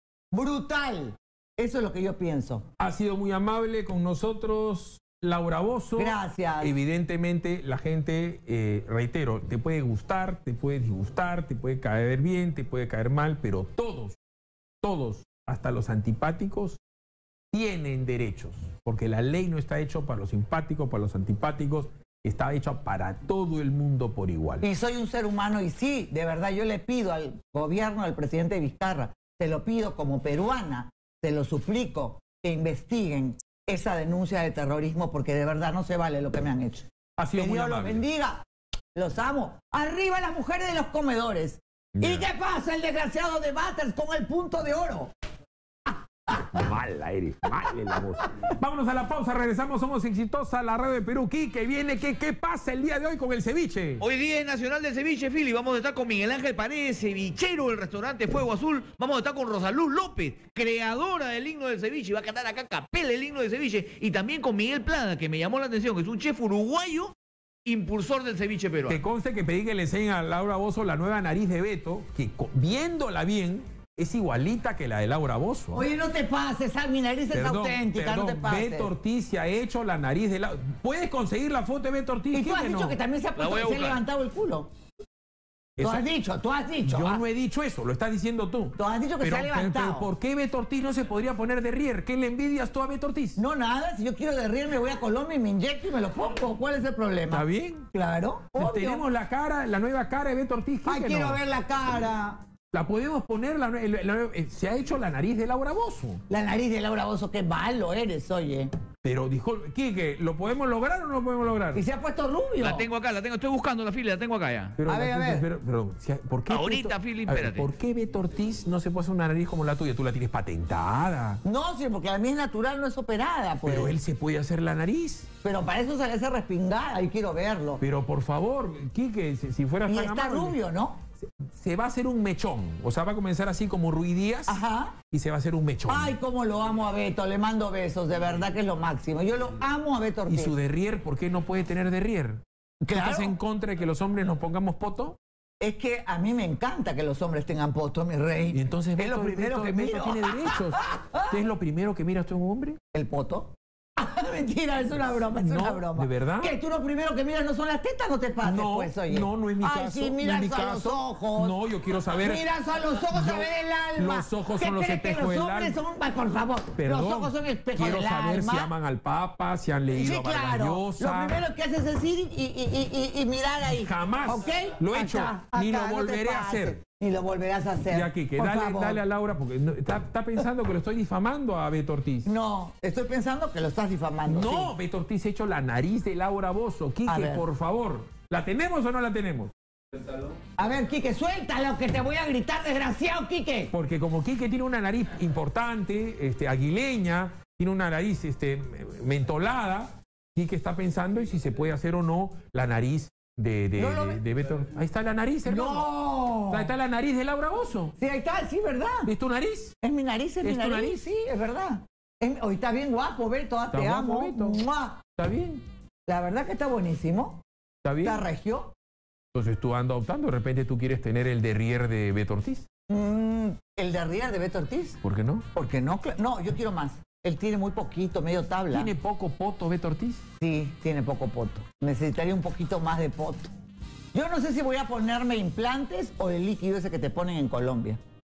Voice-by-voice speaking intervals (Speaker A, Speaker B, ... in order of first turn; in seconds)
Speaker A: 0.3-2.6, 6.0-6.7, 24.6-45.1, 45.9-46.7, 47.9-48.2, 75.7-78.9, 82.3-84.7, 85.8-87.2, 88.8-90.1, 93.4-99.0, 100.8-102.4, 106.3-108.7, 111.7-112.8, 114.8-115.5, 121.4-123.9, 125.4-127.8, 129.9-131.0, 134.5-135.0, 135.9-140.5, 142.8-143.3, 145.6-151.3, 152.9-161.6, 162.2-168.7, 169.9-179.0, 182.2-184.7, 187.1-187.4, 190.6-193.7, 203.8-204.2, 205.5-206.7, 208.0-209.1, 209.8-215.0, 216.1-217.4, 218.0-218.7, 222.9-225.0, 225.5-228.9, 230.4-233.5, 234.1-238.0
Speaker B: 2.8-14.2, 14.8-16.8, 17.5-24.6, 37.2-38.0, 41.9-42.3, 46.3-54.0, 68.9-75.8, 77.3-83.0, 85.8-86.0, 86.8-93.4, 97.3-97.9, 98.5-101.4, 102.7-106.2, 109.0-111.8, 114.8-121.4, 123.6-125.3, 127.8-130.6, 131.2-136.2, 140.3-145.2, 148.5-152.8, 155.3-156.6, 158.4-162.4, 163.1-165.8, 166.8-171.4, 173.6-176.8, 177.9-182.3, 184.3-189.5, 193.7-205.9, 206.5-207.9, 209.0-209.7, 210.4-211.0, 213.7-214.6, 215.2-215.6, 217.8-218.2, 219.3-222.7, 225.0-225.4, 228.7-230.3
Speaker C: 54.0-67.1, 67.7-69.0, 83.3-84.0, 112.6-114.8, 116.5-117.7